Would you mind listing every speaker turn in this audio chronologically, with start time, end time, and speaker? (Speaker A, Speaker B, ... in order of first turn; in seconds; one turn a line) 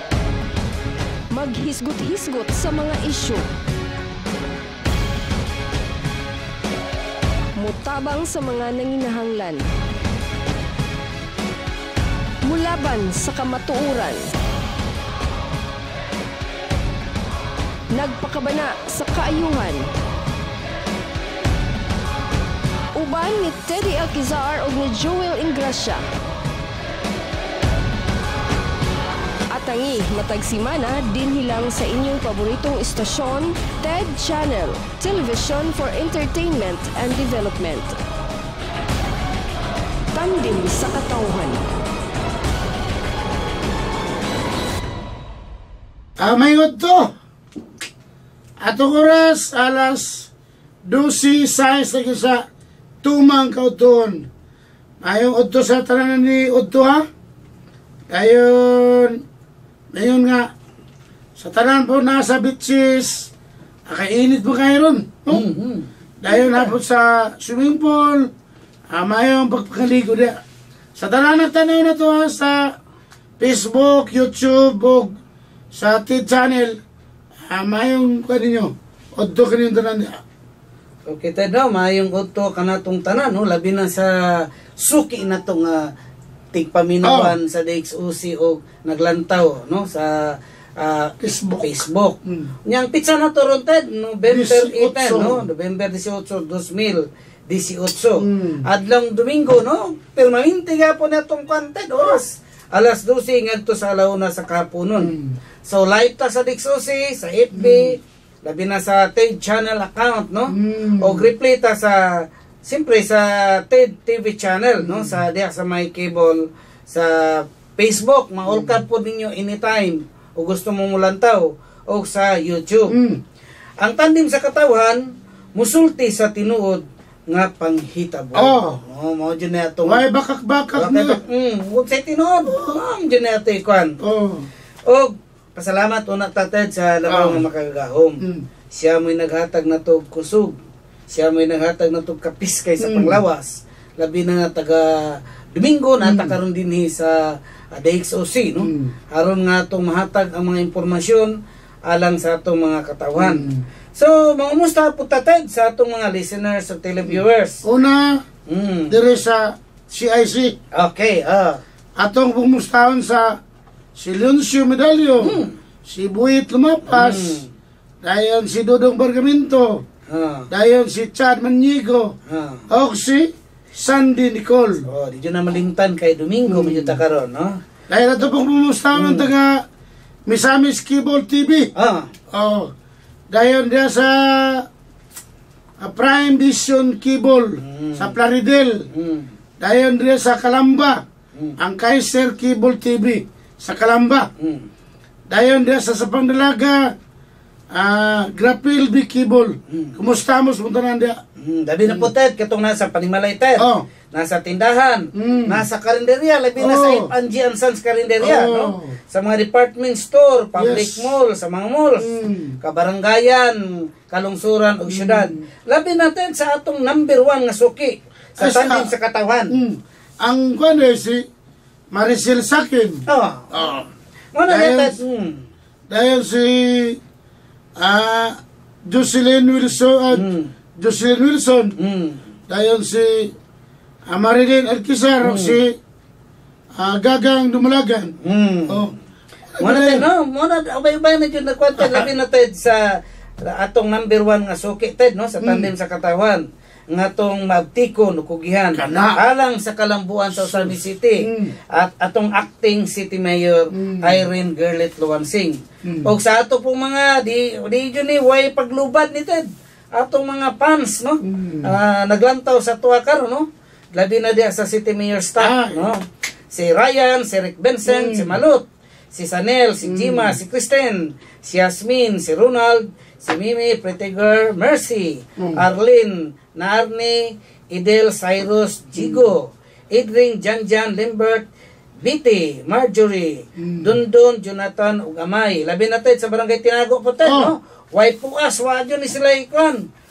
Speaker A: 1.3-3.4
Speaker A: 7.6-9.6
Speaker A: 12.5-14.2
Speaker A: 17.9-19.8
Speaker A: 23.0-26.0
Speaker A: 29.5-38.0
Speaker A: 40.1-41.6
Speaker B: 46.2-47.1
Speaker B: 48.6-50.3
Speaker B: 50.9-52.4
Speaker B: 53.0-54.2
Speaker B: 55.0-57.1
Speaker B: 58.1-59.2
Speaker B: 59.9-60.5
Speaker B: 61.4-63.3
Speaker B: 63.9-65.5
Speaker C: 65.3-65.9
Speaker B: 66.2-68.3
Speaker B: 68.9-70.4
Speaker B: 71.0-72.7
Speaker B: 73.4-75.1
Speaker B: 75.8-76.8
Speaker B: 77.4-80.2
Speaker C: 81.1-84.1
Speaker C: 84.8-85.8
Speaker C: 86.5-92.2
Speaker B: 87.0-87.3
Speaker B: 91.2-92.5
Speaker C: 92.7-105.1
Speaker B: 94.3-95.4
Speaker B: 98.2-98.7
Speaker B: 105.0-105.4
Speaker C: 105.7-112.0
Speaker B: 107.5-108.0
Speaker B: 110.5-111.3
Speaker C: 112.7-122.9
Speaker B: 114.8-115.2
Speaker B: 118.5-118.8
Speaker B: 122.9-123.2
Speaker C: 123.8-125.0
Speaker C: 125.6-130.0
Speaker B: 128.3-128.8
Speaker B: 129.9-131.2
Speaker C: 130.8-134.0
Speaker B: 132.5-132.8
Speaker B: 134.0-134.5
Speaker C: 134.9-138.2
Speaker B: 137.1-137.4
Speaker C: 138.7-140.6
Speaker C: 141.1-147.2
Speaker B: 142.8-143.2
Speaker B: 146.0-146.3
Speaker C: 147.8-151.3
Speaker B: 148.6-148.9
Speaker C: 151.9-157.6
Speaker B: 153.2-153.6
Speaker B: 157.1-158.2
Speaker C: 158.5-158.9
Speaker B: 158.9-160.6
Speaker C: 160.8-161.6
Speaker B: 162.0-163.4
Speaker B: 164.0-167.4
Speaker C: 165.2-165.6
Speaker C: 166.9-167.5
Speaker B: 168.0-169.8
Speaker C: 170.1-170.5
Speaker B: 170.5-172.1
Speaker C: 172.3-172.6
Speaker B: 172.7-174.8
Speaker C: 174.9-177.6
Speaker B: 176.5-177.0
Speaker B: 177.9-179.6
Speaker C: 178.9-179.3
Speaker B: 180.3-181.7
Speaker C: 181.8-182.1
Speaker B: 182.3-182.7
Speaker B: 183.3-184.7
Speaker B: 185.8-188.8
Speaker C: 187.6-188.2
Speaker C: 188.9-189.3
Speaker B: 189.6-191.0
Speaker B: 191.6-194.3
Speaker C: 194.4-194.7
Speaker B: 195.3-196.9
Speaker B: 197.7-201.2
Speaker C: 199.7-200.0
Speaker C: 201.4-212.1
Speaker B: 203.6-203.8
Speaker B: 205.2-205.6
Speaker B: 206.6-207.1
Speaker B: 208.2-209.0
Speaker B: 210.6-211.1
Speaker B: 212.0-212.6
Speaker C: 212.6-219.5
Speaker B: 214.9-215.5
Speaker B: 218.4-218.9
Speaker B: 219.5-221.2
Speaker B: 221.9-223.9
Speaker C: 223.1-223.8
Speaker C: 224.4-225.4
Speaker B: 224.5-225.0
Speaker B: 225.9-227.0
Speaker B: 227.8-231.7
Speaker C: 230.1-230.5
Speaker C: 231.8-232.2
Speaker B: 232.5-233.3
Speaker B: 234.1-235.8
Speaker C: 235.2-235.6
Speaker B: 236.8-238.1
Speaker C: 238.2-238.8
Speaker B: 238.7-238.9
Speaker B: 239.5-240.1
Speaker C: 239.6-242.8
Speaker B: 241.8-242.1
Speaker C: 243.4-259.4
Speaker B: 245.4-245.7
Speaker B: 248.8-249.2
Speaker B: 250.3-251.6
Speaker B: 253.7-254.2
Speaker B: 255.8-256.1
Speaker C: 260.0-281.4
Speaker B: 261.2-261.7
Speaker B: 265.4-265.8
Speaker B: 267.9-268.4
Speaker B: 269.8-270.4
Speaker B: 275.4-275.6
Speaker B: 279.0-279.2
Speaker C: 282.0-289.8
Speaker B: 283.6-283.9
Speaker B: 287.2-287.5